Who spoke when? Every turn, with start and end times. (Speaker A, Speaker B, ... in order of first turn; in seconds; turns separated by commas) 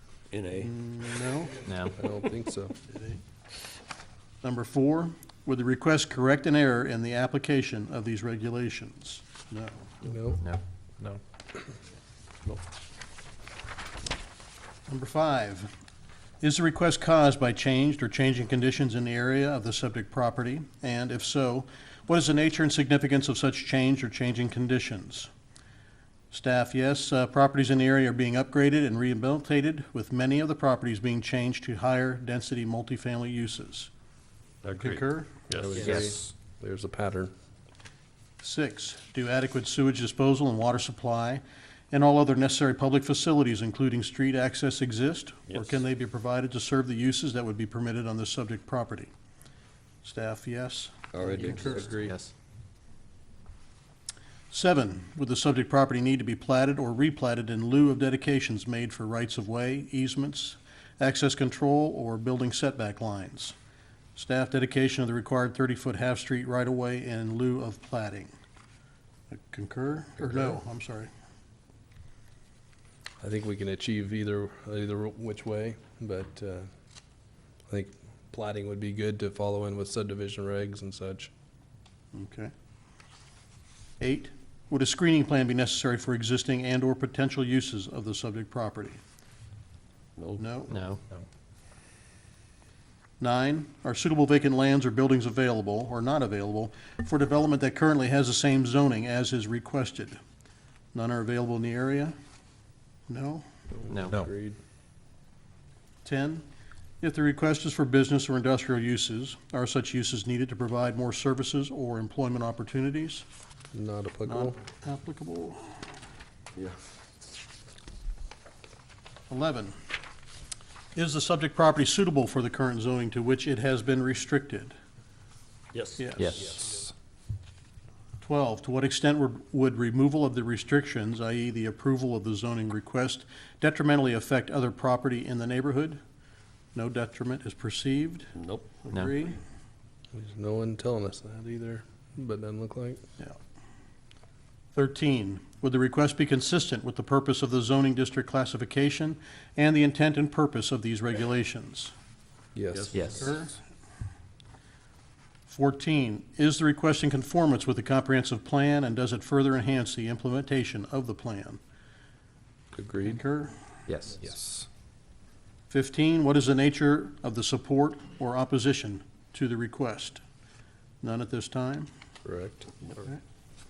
Speaker A: 0.3-0.8, Speaker B: 0.6-1.6, Speaker C: 1.6-1.9, Speaker D: 1.9-2.7, Speaker B: 2.9-3.2, Speaker B: 4.4-9.9, Speaker D: 10.0-10.4, Speaker C: 10.4-11.2, Speaker B: 14.9-15.7, Speaker B: 16.4-25.3, Speaker B: 26.3-33.9, Speaker A: 34.6-36.1, Speaker B: 34.7-35.5, Speaker D: 35.5-37.3, Speaker C: 35.8-36.1, Speaker B: 38.4-49.1, Speaker A: 45.5-45.8, Speaker B: 50.0-52.1, Speaker A: 51.1-52.0, Speaker D: 51.4-52.1, Speaker C: 51.9-52.3, Speaker B: 54.5-63.5, Speaker B: 64.2-68.3, Speaker B: 69.3-71.1, Speaker D: 73.2-76.7, Speaker D: 77.7-81.3, Speaker B: 82.1-82.5, Speaker B: 84.0-89.0, Speaker A: 90.2-90.4, Speaker B: 90.4-90.7, Speaker C: 90.7-91.0, Speaker B: 93.2-100.2, Speaker B: 100.9-102.1, Speaker B: 103.1-103.4, Speaker D: 103.8-104.6, Speaker C: 103.9-104.2, Speaker B: 106.0-106.4, Speaker B: 107.0-113.2, Speaker D: 113.7-114.5, Speaker B: 114.2-115.8, Speaker B: 119.3-119.8, Speaker B: 120.9-124.7, Speaker A: 125.7-126.0, Speaker B: 126.0-126.7, Speaker C: 126.2-126.5, Speaker D: 126.4-126.8, Speaker B: 128.2-136.0, Speaker B: 136.7-139.4, Speaker A: 138.3-138.8, Speaker D: 140.1-143.0, Speaker B: 144.7-151.9, Speaker D: 152.5-153.3, Speaker A: 152.7-153.2, Speaker C: 152.9-153.3, Speaker B: 153.0-153.6, Speaker B: 155.5-161.6, Speaker D: 162.7-163.2, Speaker B: 163.0-163.5, Speaker C: 163.9-164.2, Speaker D: 164.2-164.7, Speaker B: 165.7-170.2, Speaker B: 171.0-171.9, Speaker D: 172.2-172.7